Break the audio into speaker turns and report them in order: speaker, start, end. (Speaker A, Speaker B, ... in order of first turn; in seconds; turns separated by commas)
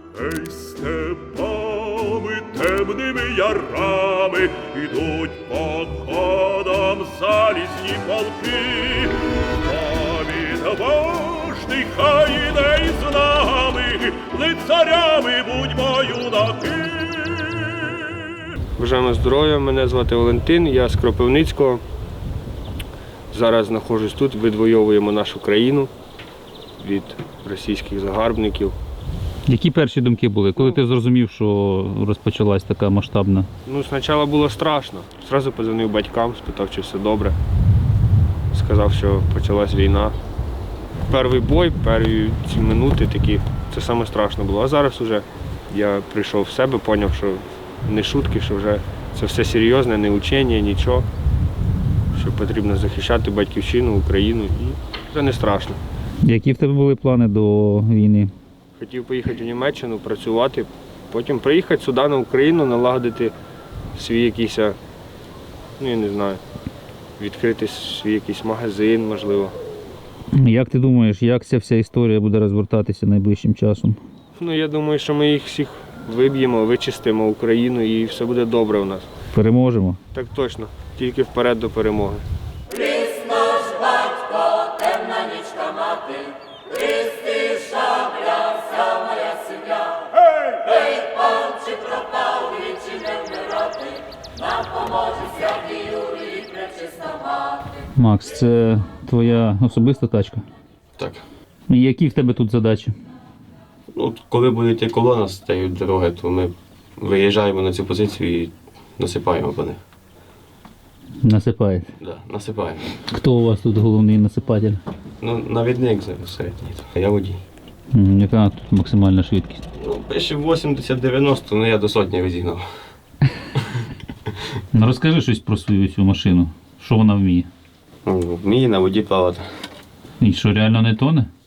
Speaker A: 0.1-18.0, Speaker B: 18.8-21.6, Speaker C: 19.0-21.8, Speaker C: 23.3-25.9, Speaker B: 23.4-24.5, Speaker B: 25.3-25.7, Speaker C: 26.8-28.7, Speaker D: 29.5-33.5, Speaker C: 33.7-37.3, Speaker B: 36.0-37.1, Speaker C: 38.6-40.1, Speaker B: 38.7-40.0, Speaker C: 41.1-45.2, Speaker B: 41.4-44.9, Speaker C: 45.8-47.4, Speaker B: 46.3-47.1, Speaker C: 47.9-51.0, Speaker B: 48.0-48.7, Speaker B: 49.3-50.2, Speaker C: 52.2-55.7, Speaker B: 52.3-54.2, Speaker B: 55.3-55.8, Speaker D: 56.2-58.3, Speaker C: 58.8-63.3, Speaker B: 59.3-60.6, Speaker B: 61.3-62.0, Speaker B: 62.7-63.0, Speaker C: 64.0-64.8, Speaker B: 64.2-64.6, Speaker C: 65.8-66.4, Speaker C: 67.2-69.5, Speaker B: 67.5-68.7, Speaker D: 70.4-74.0, Speaker C: 74.4-79.0, Speaker B: 76.2-78.8, Speaker D: 79.3-80.0, Speaker C: 80.2-82.2, Speaker D: 98.0-100.4, Speaker B: 101.0-101.2, Speaker D: 101.7-103.0, Speaker B: 103.9-109.8, Speaker D: 111.2-111.9, Speaker B: 112.0-112.8, Speaker D: 113.1-114.8, Speaker B: 115.2-117.4, Speaker D: 117.9-119.6, Speaker B: 119.7-122.7, Speaker D: 124.7-127.5, Speaker B: 128.1-129.5, Speaker D: 130.2-131.3